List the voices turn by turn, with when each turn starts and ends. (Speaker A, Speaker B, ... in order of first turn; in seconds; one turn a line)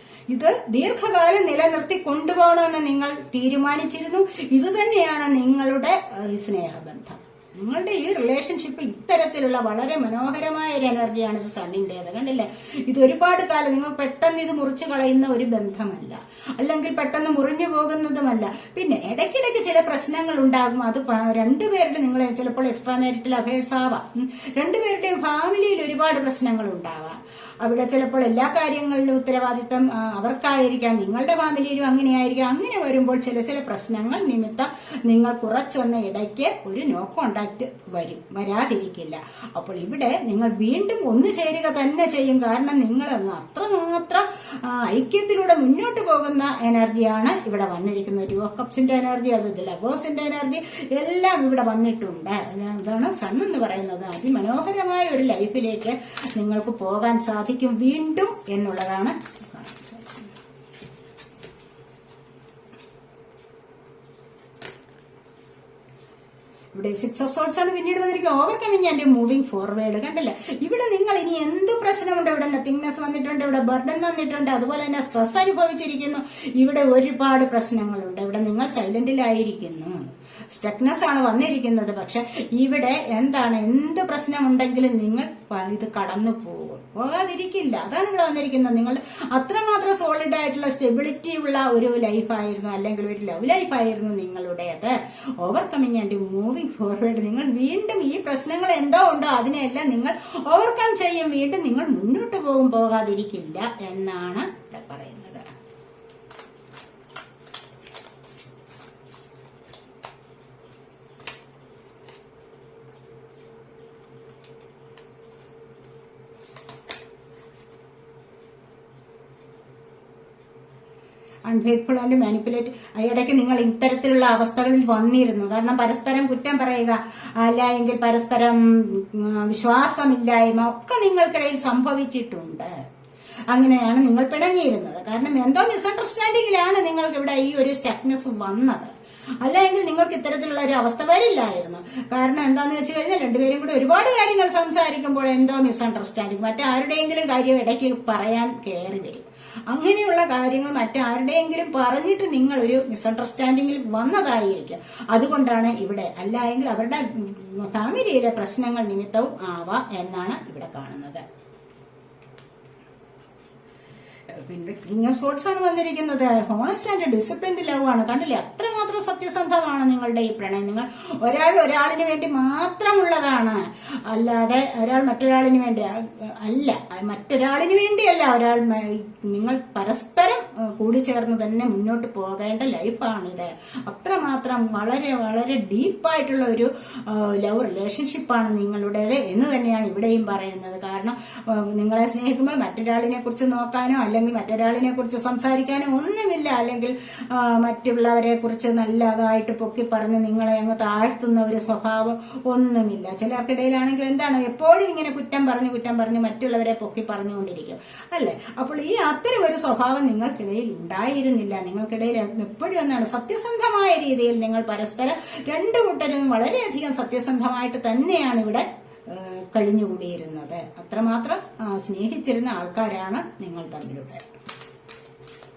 Speaker A: 0.3-60.2
Speaker A: 66.7-105.5
Speaker A: 121.5-132.7
Speaker A: 133.5-161.2
Speaker A: 164.3-224.2